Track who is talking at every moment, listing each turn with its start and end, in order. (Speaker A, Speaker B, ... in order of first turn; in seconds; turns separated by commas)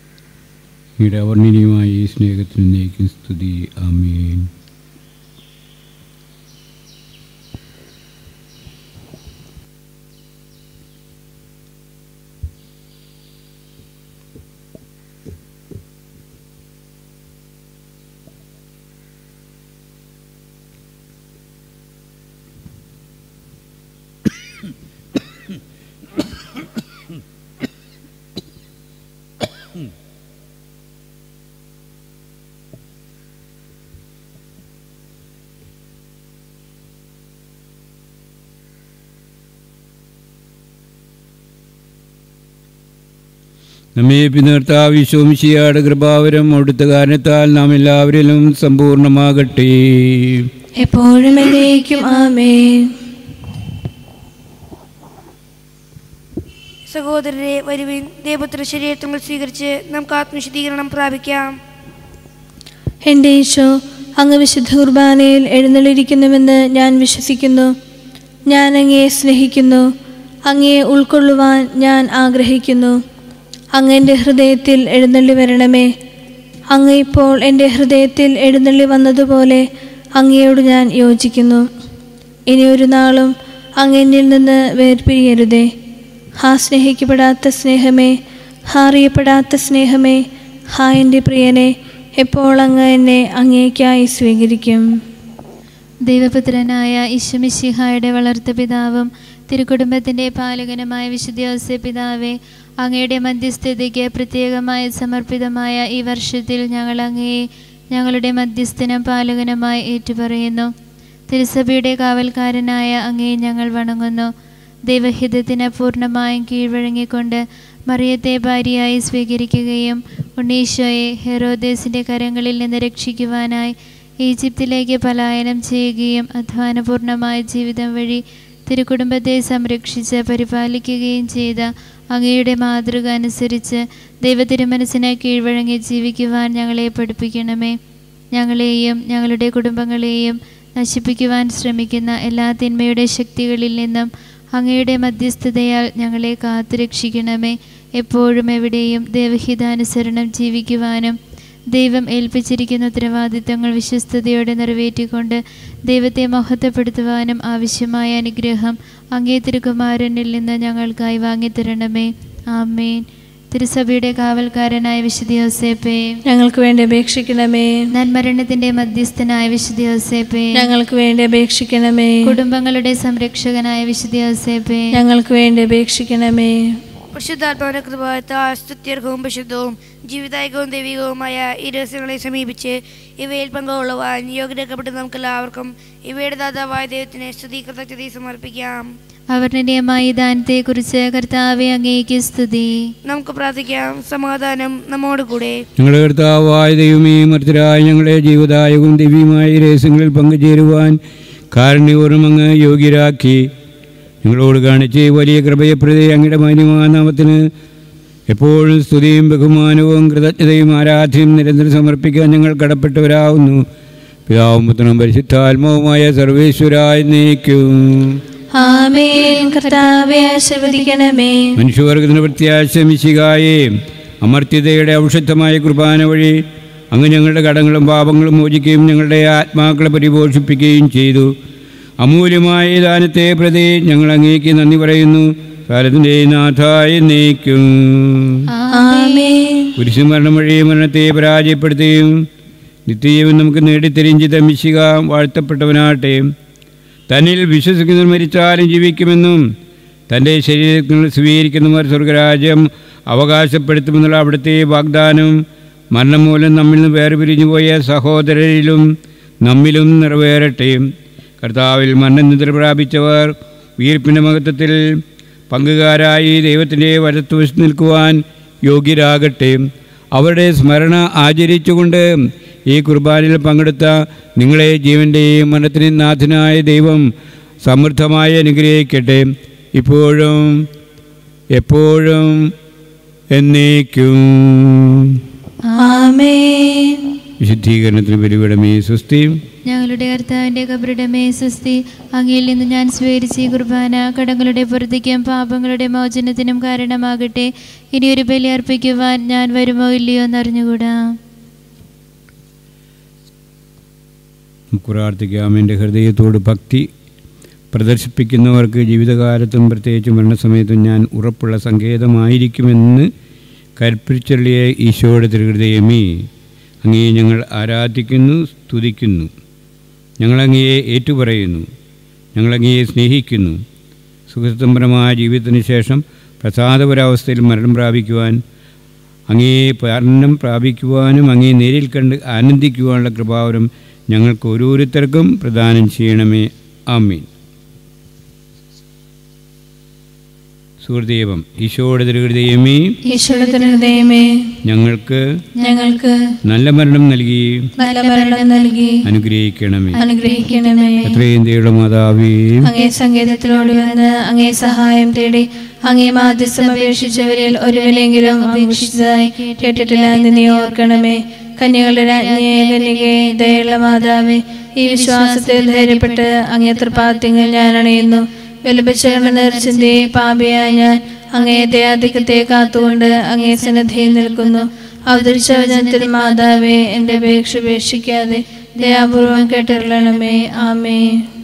Speaker A: 1.0-4.5, Speaker A: 44.0-50.5, Speaker B: 50.8-52.9, Speaker C: 56.9-61.6, Speaker B: 63.1-67.7, Speaker B: 68.5-69.9, Speaker B: 70.5-73.0, Speaker B: 73.8-75.9, Speaker B: 76.7-79.7, Speaker B: 80.2-81.7, Speaker B: 82.5-85.7, Speaker B: 86.4-88.2, Speaker B: 88.7-90.2, Speaker B: 90.7-94.9, Speaker D: 96.1-110.7, Speaker D: 111.3-114.3, Speaker D: 114.9-137.8, Speaker D: 138.3-151.2, Speaker D: 151.7-166.1, Speaker B: 166.3-167.7, Speaker D: 167.9-170.7, Speaker B: 170.5-172.4, Speaker D: 172.2-174.9, Speaker B: 174.9-176.6, Speaker C: 177.1-188.8, Speaker D: 189.3-192.8, Speaker C: 193.1-195.6, Speaker A: 195.8-201.0, Speaker A: 201.5-203.5, Speaker A: 204.2-207.5, Speaker A: 208.3-213.7, Speaker A: 214.3-218.2, Speaker B: 218.6-221.5, Speaker D: 219.4-219.9, Speaker A: 221.6-226.4, Speaker A: 226.9-231.3, Speaker A: 232.0-238.4, Speaker D: 238.5-239.3, Speaker B: 238.7-239.8, Speaker A: 239.8-242.3, Speaker A: 242.9-246.3, Speaker A: 247.1-249.4, Speaker A: 250.1-255.4, Speaker A: 255.9-258.9, Speaker A: 259.4-260.9, Speaker A: 261.4-264.8, Speaker A: 265.5-272.1, Speaker A: 272.7-277.1, Speaker A: 277.6-280.6, Speaker A: 281.6-282.5, Speaker A: 283.3-285.2, Speaker D: 285.7-286.1, Speaker B: 285.8-287.1, Speaker A: 287.4-289.4, Speaker D: 289.7-301.0, Speaker A: 304.7-306.9, Speaker A: 307.7-313.1, Speaker A: 313.8-316.3, Speaker A: 316.8-319.3, Speaker A: 320.2-321.7, Speaker A: 322.4-323.6, Speaker A: 324.3-328.4, Speaker A: 329.3-337.3, Speaker A: 340.8-343.0, Speaker B: 343.1-344.3, Speaker D: 343.2-343.9, Speaker A: 344.6-345.2, Speaker B: 345.6-346.2, Speaker A: 346.4-347.7, Speaker B: 347.8-349.0, Speaker D: 348.0-348.9, Speaker A: 349.1-350.0, Speaker D: 349.9-351.2, Speaker B: 349.9-351.1, Speaker A: 351.1-352.7, Speaker B: 352.6-381.2, Speaker D: 356.5-361.1, Speaker D: 361.9-363.6, Speaker D: 364.9-366.3, Speaker D: 369.0-370.1, Speaker D: 371.9-372.6, Speaker D: 373.2-374.6, Speaker D: 375.2-376.5, Speaker D: 378.8-380.5